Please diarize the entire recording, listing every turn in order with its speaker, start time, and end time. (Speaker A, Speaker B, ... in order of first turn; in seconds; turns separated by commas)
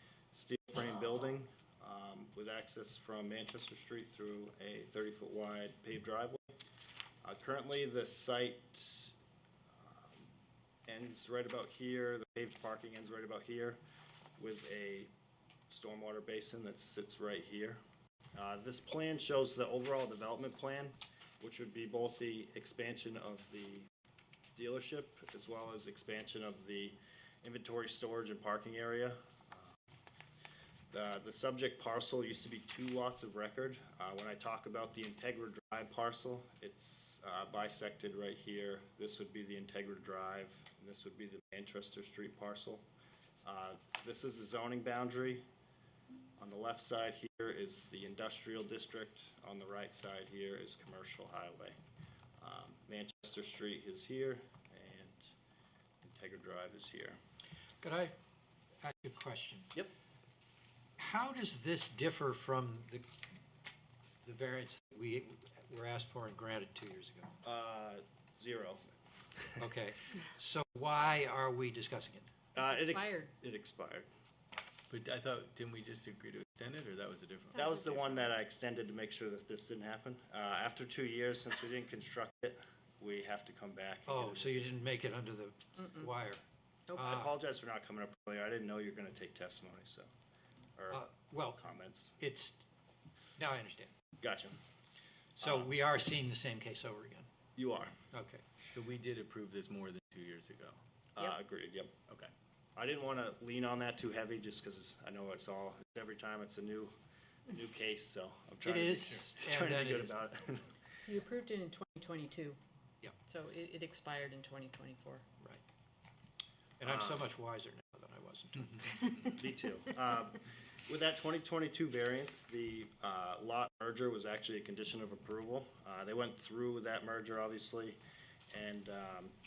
Speaker A: 0.3-6.6, Speaker A: 7.2-9.2, Speaker A: 9.8-10.2, Speaker A: 10.9-13.8, Speaker A: 14.4-15.1, Speaker A: 15.7-17.8, Speaker A: 18.3-23.9, Speaker A: 24.6-29.7, Speaker A: 30.9-42.9, Speaker A: 43.4-45.4, Speaker A: 46.4-51.8, Speaker A: 52.4-55.3, Speaker A: 56.0-57.2, Speaker B: 57.8-58.1, Speaker B: 58.8-59.8, Speaker B: 61.0-63.0, Speaker B: 64.2-67.3, Speaker A: 67.4-68.8, Speaker B: 69.6-72.3, Speaker A: 72.5-74.1, Speaker C: 72.6-73.3, Speaker D: 74.9-77.6, Speaker A: 77.5-84.8, Speaker B: 84.1-86.4, Speaker B: 86.9-87.3, Speaker A: 87.0-90.1, Speaker A: 90.8-92.2, Speaker B: 90.9-91.6, Speaker B: 92.2-92.6, Speaker B: 93.4-93.9, Speaker A: 94.2-94.6, Speaker A: 95.4-95.7, Speaker B: 95.4-97.3, Speaker A: 97.6-98.0, Speaker B: 98.1-98.4, Speaker D: 98.7-100.8, Speaker A: 101.2-101.9, Speaker A: 102.8-106.9, Speaker A: 107.5-110.7, Speaker B: 108.6-110.2, Speaker C: 111.0-112.6, Speaker C: 113.2-115.2, Speaker B: 116.8-119.2, Speaker A: 116.8-117.3, Speaker A: 119.3-128.0, Speaker A: 128.5-129.3